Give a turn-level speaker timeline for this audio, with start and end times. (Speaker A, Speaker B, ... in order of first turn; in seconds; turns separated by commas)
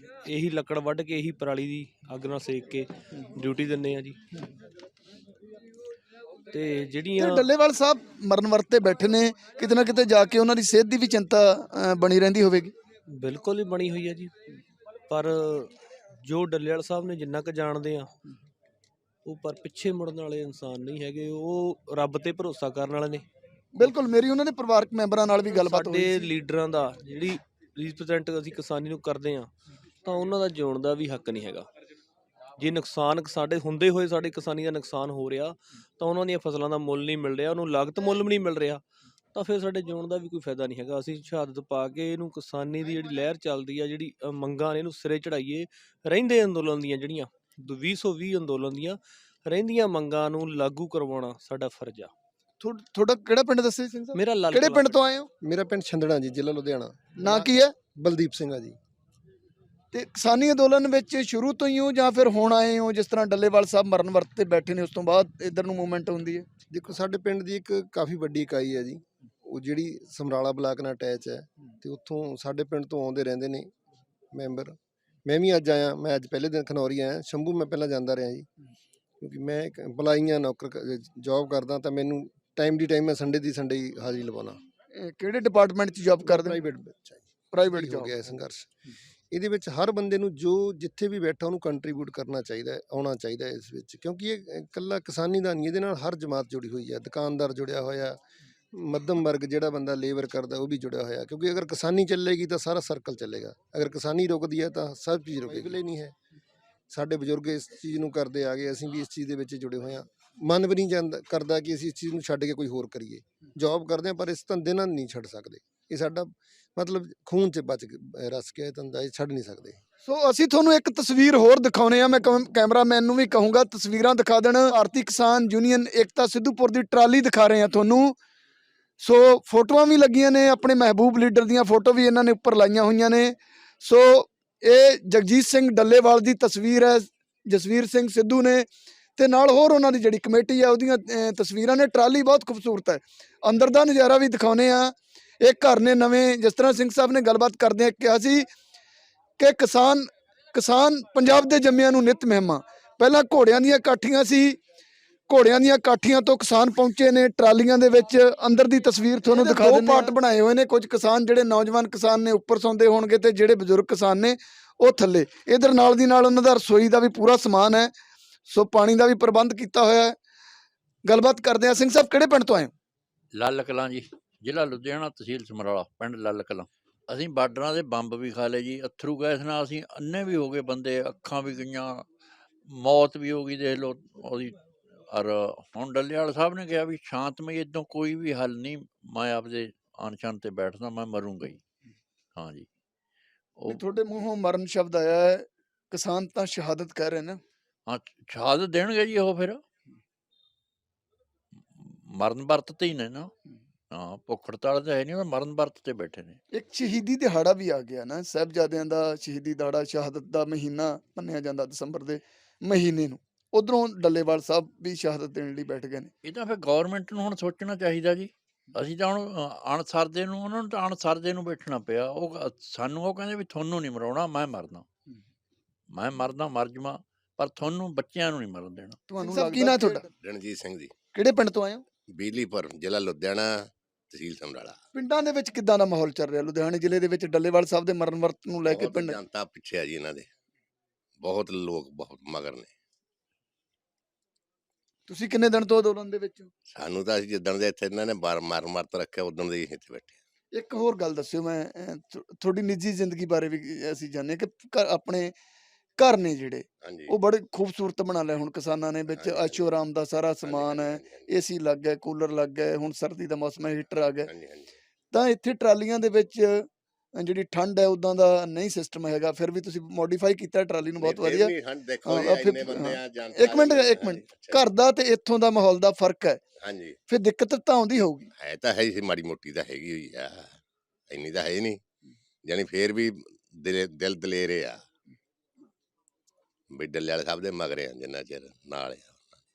Speaker A: 0.2-4.2, Speaker A: 6.5-7.5, Speaker B: 7.2-12.7, Speaker A: 13.1-14.3, Speaker A: 15.1-18.1, Speaker A: 19.3-23.2, Speaker B: 23.8-26.3, Speaker A: 25.5-29.5, Speaker A: 30.0-31.7, Speaker A: 32.6-38.8, Speaker A: 39.4-52.1, Speaker B: 52.6-55.3, Speaker A: 54.1-55.1, Speaker C: 55.4-57.1, Speaker B: 57.2-57.7, Speaker C: 58.0-58.8, Speaker B: 59.9-66.5, Speaker C: 66.7-73.7, Speaker C: 74.3-78.5, Speaker C: 79.2-84.6, Speaker B: 85.0-86.6, Speaker C: 86.2-88.7, Speaker B: 87.5-88.2, Speaker C: 89.3-98.2, Speaker C: 98.7-106.2, Speaker C: 106.9-119.8, Speaker B: 120.0-128.2, Speaker B: 129.0-138.7, Speaker B: 139.2-148.5, Speaker B: 149.4-154.6, Speaker B: 155.3-167.9, Speaker B: 168.5-170.2, Speaker B: 171.1-172.7, Speaker D: 173.3-182.1, Speaker D: 182.7-191.6, Speaker D: 192.4-192.7, Speaker B: 193.7-197.4, Speaker D: 197.9-199.6, Speaker D: 201.8-203.3, Speaker D: 203.9-206.4, Speaker B: 206.5-216.1, Speaker D: 216.2-224.8, Speaker D: 225.9-229.0, Speaker B: 229.1-230.1, Speaker E: 230.2-230.9, Speaker B: 231.1-231.8, Speaker E: 232.1-234.8, Speaker B: 234.9-239.2, Speaker E: 238.7-240.3, Speaker E: 241.2-242.7, Speaker B: 245.1-246.5, Speaker E: 246.7-250.2, Speaker B: 250.5-255.3, Speaker B: 256.0-264.3, Speaker E: 256.8-257.1, Speaker E: 259.1-259.8, Speaker E: 260.4-261.3, Speaker E: 264.3-264.8, Speaker B: 265.1-266.7, Speaker B: 267.2-271.5, Speaker E: 271.0-274.6, Speaker B: 272.1-276.4, Speaker E: 276.6-277.0, Speaker B: 277.1-278.3, Speaker E: 278.4-280.5, Speaker E: 281.1-281.8, Speaker E: 282.4-284.8, Speaker E: 286.7-289.4